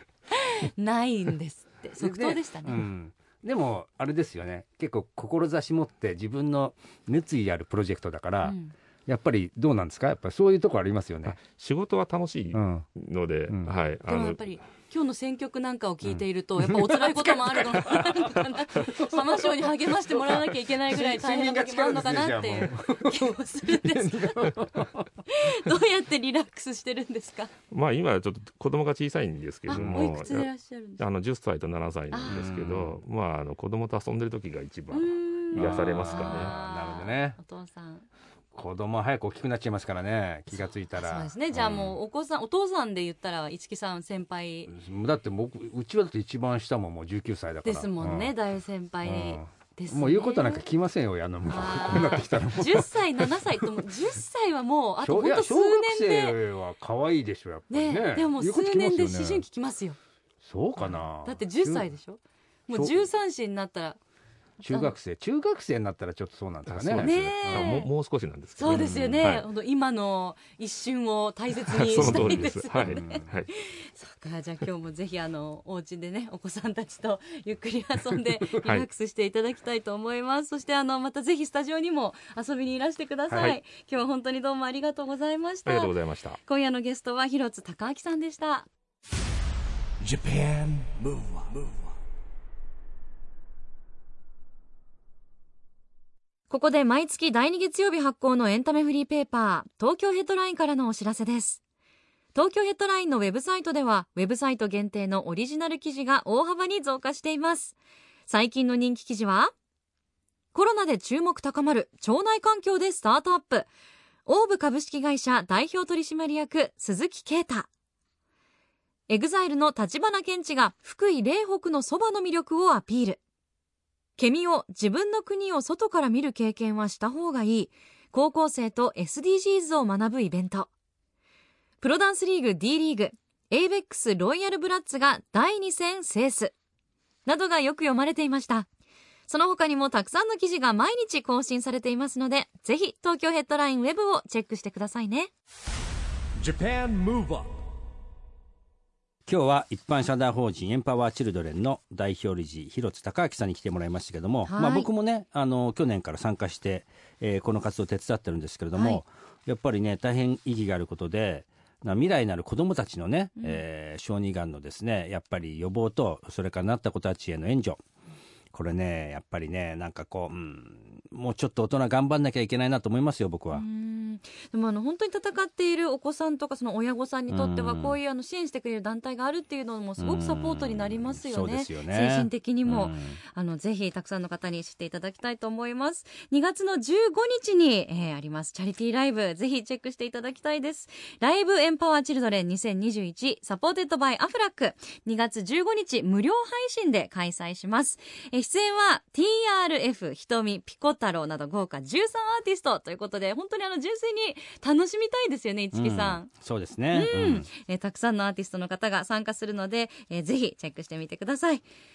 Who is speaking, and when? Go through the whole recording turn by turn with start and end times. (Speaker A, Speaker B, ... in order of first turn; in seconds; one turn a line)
Speaker A: 0.3-2.9
Speaker B: 2.0-11.4
Speaker A: 8.4-8.7
Speaker C: 11.3-14.4
Speaker B: 12.5-12.8
Speaker B: 13.5-13.7
Speaker A: 14.1-24.6
Speaker B: 16.1-18.0
Speaker B: 18.9-25.1
Speaker A: 25.2-27.5
Speaker C: 27.7-36.5
Speaker A: 29.7-31.0
Speaker B: 29.7-30.3
Speaker A: 32.1-32.5
Speaker B: 32.2-33.0
Speaker A: 34.9-38.0
Speaker B: 35.5-37.4
Speaker B: 38.5-42.0
Speaker A: 40.9-44.7
Speaker B: 44.7-48.3
Speaker A: 47.6-50.6
Speaker B: 49.0-53.8
Speaker A: 51.4-56.4
Speaker B: 55.0-59.5
Speaker A: 57.7-60.0
Speaker B: 60.4-61.9
Speaker A: 60.8-64.0
Speaker B: 62.7-63.1
Speaker B: 64.6-67.8
Speaker C: 66.7-69.5
Speaker A: 66.9-67.9
Speaker A: 68.6-85.9
Speaker B: 68.7-69.3
Speaker C: 71.7-73.5
Speaker B: 72.0-73.3
Speaker B: 83.3-83.5
Speaker C: 85.7-86.4
Speaker A: 86.4-88.7
Speaker D: 90.0-91.9
Speaker A: 96.5-101.6
Speaker A: 102.3-109.5
Speaker A: 110.5-113.7
Speaker A: 114.2-117.7
Speaker A: 119.1-123.2
Speaker A: 124.2-130.7
Speaker A: 131.8-136.5
Speaker A: 137.2-138.7
Speaker A: 139.3-145.3
Speaker D: 146.4-147.5
Speaker B: 149.2-167.8
Speaker A: 154.5-154.9
Speaker A: 158.7-159.0
Speaker A: 163.4-163.6
Speaker B: 168.5-173.6
Speaker A: 173.5-206.3
Speaker B: 177.3-178.0
Speaker B: 180.0-183.2
Speaker B: 205.7-207.5
Speaker A: 206.9-211.6